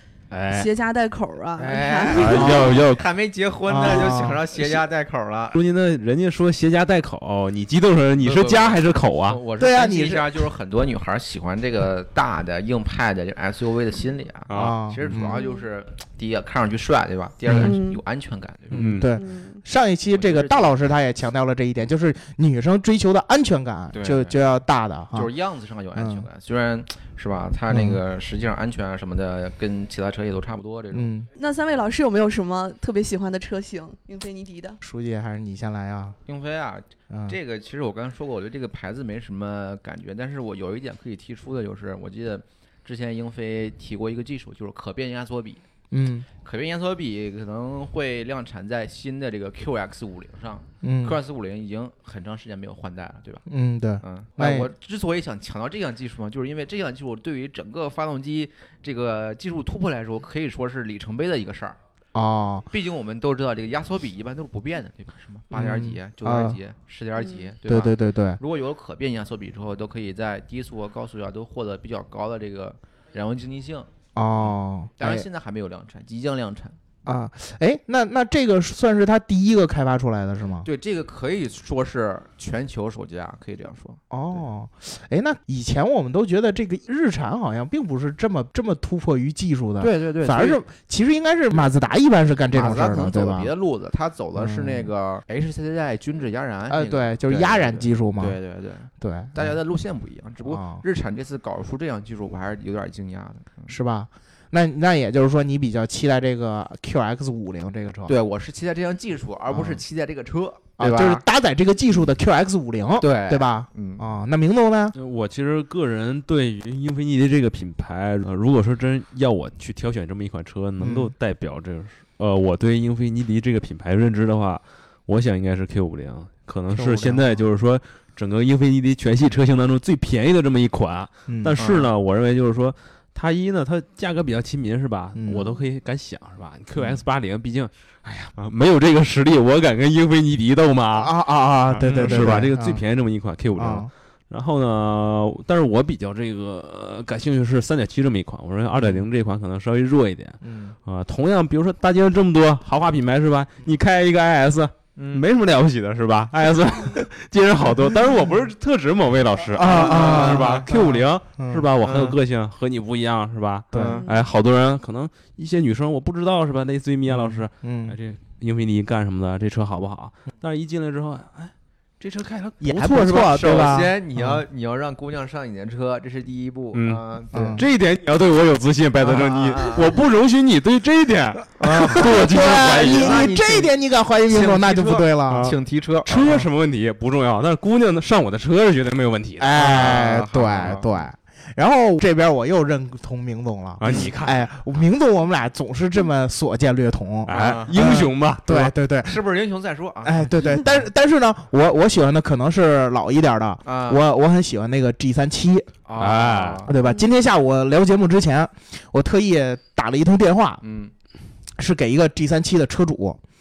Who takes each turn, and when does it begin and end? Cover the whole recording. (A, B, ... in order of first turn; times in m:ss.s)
0:00.3-0:00.7 A
0:00.5-0:02.6 B
0:01.6-0:05.6 C
0:02.1-0:03.0 A
0:03.7-0:04.4 D
0:05.5-0:09.4 A
0:08.2-0:19.0 C
0:09.6-0:10.3 D
0:14.5-0:14.8 A
0:14.6-0:15.4 D
0:15.2-0:15.6 B
0:17.5-0:17.8 D
0:17.6-0:18.0 B
0:18.7-0:19.1 A
0:18.7-0:25.3 D
0:19.2-0:19.6 B
0:20.1-0:20.8 C
0:23.9-0:24.4 C
0:25.1-0:31.1 C
0:26.0-0:26.3 D
0:27.7-0:28.0 D
0:30.9-0:31.3 D
0:31.3-0:34.8 B
0:34.8-0:36.2 D
0:36.3-0:45.6 C
0:37.1-0:37.4 D
0:45.9-0:46.3 D
0:46.4-0:53.4 C
0:50.8-0:51.2 D
0:53.5-0:54.7 D
0:54.0-1:01.8 C
1:02.2-1:02.7 D
1:02.7-1:16.8 C
1:05.5-1:06.6 D
1:07.2-1:07.5 B
1:07.6-1:08.4 D
1:14.2-1:15.3 D
1:17.0-1:20.7 D
1:20.6-1:24.0 C
1:24.1-1:33.5 D
1:29.8-1:30.6 C
1:32.5-1:43.8 C
1:34.4-1:34.9 D
1:36.7-1:38.4 D
1:39.0-1:39.5 D
1:40.5-1:40.8 D
1:43.7-1:48.1 D
1:48.1-1:51.2 C
1:49.5-1:49.8 D
1:50.8-1:55.0 D
1:53.0-1:54.1 C
1:55.0-2:21.1 A
2:00.8-2:01.1 D
2:06.7-2:07.4 D
2:11.3-2:11.6 D
2:11.6-2:11.9 C
2:15.2-2:15.4 D
2:15.3-2:15.6 B
2:21.0-2:22.8 D
2:21.7-2:53.8 A
2:21.8-2:22.3 C
2:23.6-2:23.9 D
2:30.4-2:30.8 D
2:35.0-2:35.2 C
2:39.5-2:41.7 D
2:39.6-2:40.7 C
2:41.8-2:42.2 C
2:43.7-2:44.0 D
2:43.7-2:44.0 C
2:43.9-2:44.2 B
2:47.1-2:48.0 D
2:52.6-2:54.4 D
2:53.3-2:57.6 C
2:56.7-2:57.0 A
2:57.3-2:57.6 D
2:57.5-3:03.3 A
2:59.0-3:00.0 C
3:01.6-3:03.7 C
3:01.6-3:05.5 D
3:04.3-3:06.4 C
3:05.3-3:09.5 A
3:09.4-3:19.2 D
3:09.5-3:11.0 C
3:13.8-3:14.5 A
3:17.3-3:18.7 A
3:17.3-3:18.0 C
3:19.0-3:20.6 C
3:20.0-3:25.7 D
3:23.6-3:24.0 C
3:25.8-3:26.8 C
3:26.0-3:26.7 A
3:26.6-3:30.6 D
3:30.6-3:30.9 C
3:31.6-3:33.2 D